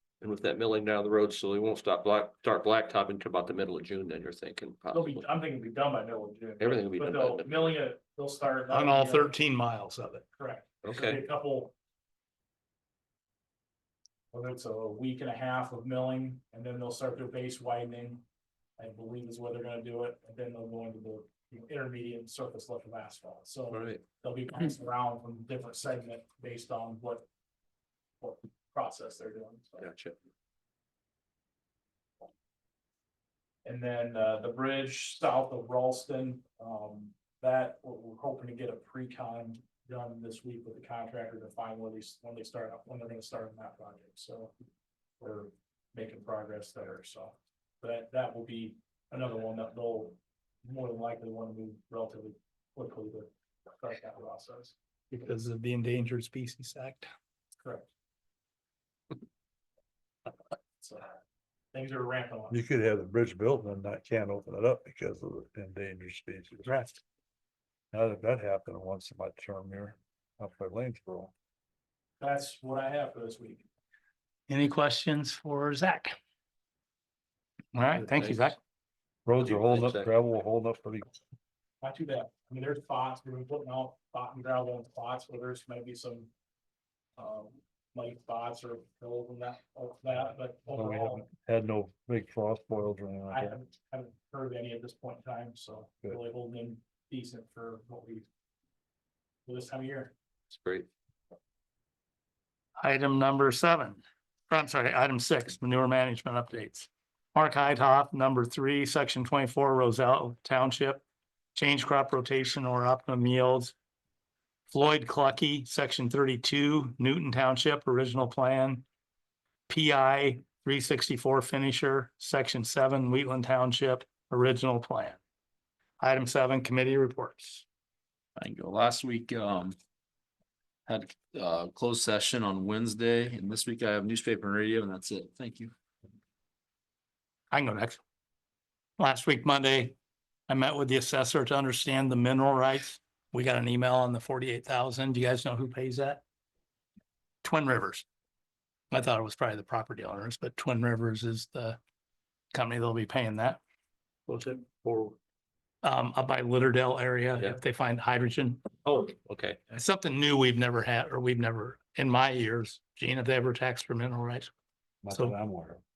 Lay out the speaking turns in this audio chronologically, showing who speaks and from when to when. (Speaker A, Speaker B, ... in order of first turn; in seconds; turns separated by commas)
Speaker A: 0.2-5.3, Speaker B: 4.9-9.4, Speaker A: 6.6-7.8, Speaker C: 8.7-10.2, Speaker B: 10.4-11.7, Speaker A: 10.8-11.2, Speaker B: 14.3-18.2, Speaker B: 18.8-27.3, Speaker A: 23.7-24.0, Speaker B: 28.2-29.9, Speaker A: 29.8-30.2, Speaker B: 33.6-44.5, Speaker B: 45.2-54.8, Speaker C: 55.1-57.1, Speaker B: 57.6-57.9, Speaker B: 60.8-61.1, Speaker B: 61.7-62.6, Speaker D: 62.5-66.7, Speaker C: 66.6-67.0, Speaker D: 67.9-71.3, Speaker B: 72.2-73.7, Speaker C: 74.5-76.2, Speaker C: 77.7-78.6, Speaker A: 78.0-78.6, Speaker D: 79.3-81.2, Speaker A: 79.4-80.1, Speaker B: 81.8-86.3, Speaker B: 87.2-91.3, Speaker D: 90.7-93.6, Speaker B: 93.3-98.3, Speaker B: 99.5-100.1, Speaker A: 100.5-100.9, Speaker C: 102.8-111.0, Speaker C: 111.5-113.8, Speaker C: 114.7-118.9, Speaker C: 119.7-125.2, Speaker C: 126.0-127.7, Speaker E: 128.4-129.8, Speaker E: 130.9-135.7, Speaker C: 137.5-138.0, Speaker C: 139.0-139.9, Speaker C: 140.5-146.2, Speaker C: 147.4-148.1, Speaker C: 148.9-151.8, Speaker C: 152.5-153.6, Speaker C: 154.3-155.2, Speaker C: 155.8-158.7, Speaker A: 158.8-159.6, Speaker C: 159.7-164.5, Speaker D: 165.0-165.8, Speaker C: 165.1-165.4